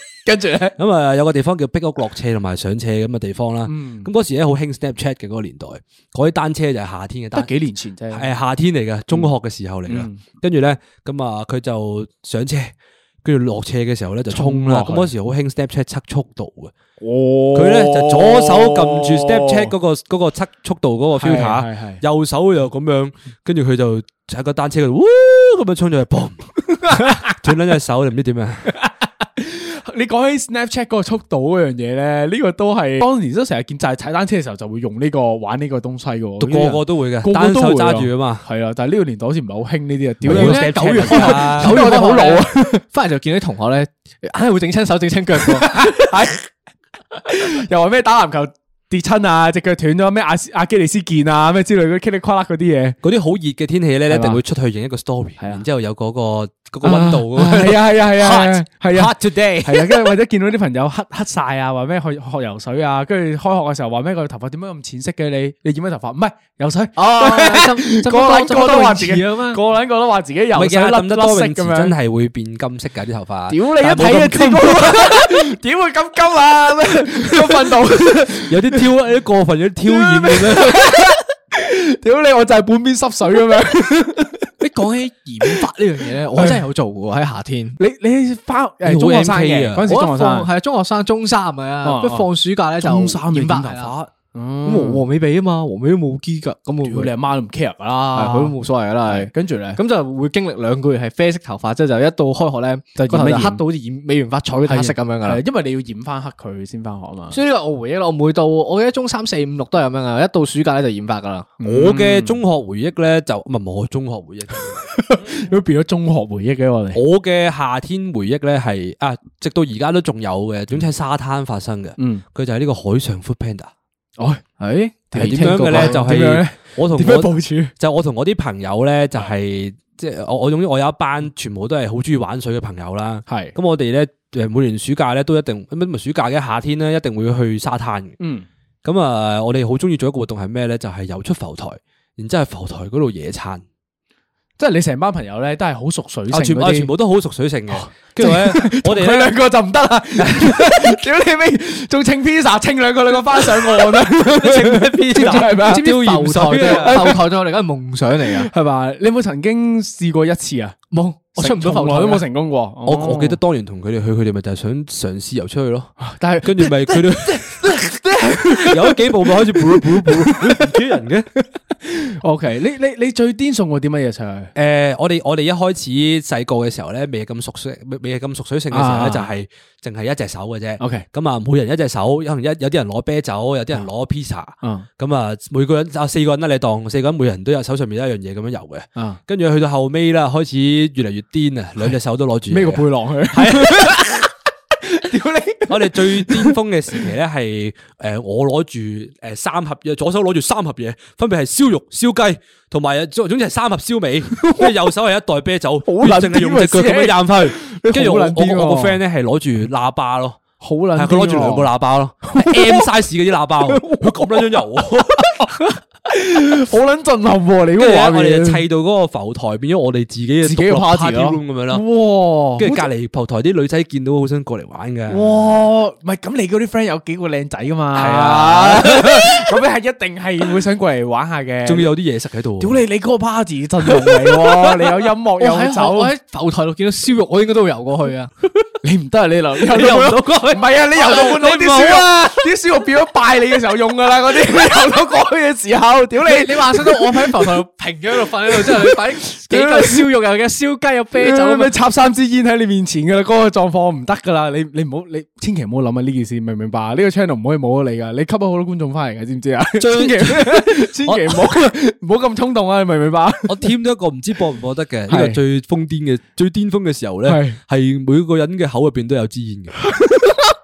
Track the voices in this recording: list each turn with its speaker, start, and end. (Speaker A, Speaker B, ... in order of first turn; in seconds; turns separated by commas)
Speaker A: 0.2-0.8, Speaker B: 0.8-7.5, Speaker A: 3.6-4.1, Speaker A: 7.3-8.3, Speaker B: 8.1-16.7, Speaker A: 9.9-10.2, Speaker A: 14.3-15.1, Speaker A: 17.0-19.7, Speaker B: 17.5-28.7, Speaker A: 21.1-22.0, Speaker A: 26.9-27.5, Speaker A: 28.7-42.8, Speaker B: 36.4-38.4, Speaker C: 40.2-45.9, Speaker B: 40.3-41.8, Speaker A: 45.4-46.5, Speaker A: 47.2-53.0, Speaker B: 53.0-60.0, Speaker A: 54.1-54.4, Speaker A: 55.4-55.6, Speaker A: 56.8-71.9, Speaker C: 67.0-69.6, Speaker B: 70.5-75.2, Speaker A: 73.5-78.8, Speaker B: 78.5-80.8, Speaker A: 79.9-84.5, Speaker C: 84.6-87.8, Speaker A: 86.3-86.7, Speaker A: 87.8-90.5, Speaker B: 88.8-89.8, Speaker C: 89.8-93.9, Speaker A: 91.8-95.0, Speaker C: 94.6-97.1, Speaker A: 96.8-99.8, Speaker C: 98.1-105.4, Speaker A: 102.9-103.6, Speaker A: 104.7-107.4, Speaker C: 107.3-111.5, Speaker A: 111.6-112.4, Speaker B: 111.6-115.0, Speaker A: 114.9-117.0, Speaker B: 116.9-123.7, Speaker A: 122.0-122.2, Speaker C: 124.6-126.0, Speaker A: 125.1-127.7, Speaker B: 125.2-138.2, Speaker A: 133.3-133.5, Speaker A: 138.2-138.4, Speaker B: 138.8-143.6, Speaker A: 144.6-146.9, Speaker B: 146.3-149.3, Speaker A: 147.7-155.9, Speaker B: 150.2-150.9, Speaker B: 154.4-157.1, Speaker C: 154.4-158.5, Speaker A: 156.5-157.2, Speaker A: 158.3-160.8, Speaker C: 160.9-162.2, Speaker A: 161.3-163.4, Speaker B: 162.8-171.3, Speaker A: 166.0-170.7, Speaker A: 171.8-174.5, Speaker B: 174.6-194.0, Speaker A: 178.7-179.3, Speaker A: 180.8-181.1, Speaker A: 192.5-194.3, Speaker A: 194.8-196.6, Speaker B: 195.7-210.4, Speaker A: 204.4-204.7, Speaker A: 205.8-209.0, Speaker A: 210.6-211.7, Speaker B: 210.9-215.3, Speaker A: 212.2-212.8, Speaker A: 213.7-214.6, Speaker A: 215.2-218.6, Speaker B: 217.8-221.8, Speaker A: 220.4-222.9, Speaker B: 222.6-225.3, Speaker A: 225.1-231.9, Speaker B: 227.9-229.3, Speaker B: 231.6-232.8, Speaker A: 232.6-236.1, Speaker C: 235.4-238.3, Speaker A: 238.8-247.6, Speaker C: 239.7-241.9, Speaker B: 239.9-240.4, Speaker B: 241.1-242.3, Speaker C: 246.2-251.7, Speaker A: 248.2-250.1, Speaker A: 251.2-263.6, Speaker B: 259.8-261.7, Speaker B: 263.5-269.9, Speaker A: 265.1-265.4, Speaker A: 267.2-267.6, Speaker A: 269.9-270.4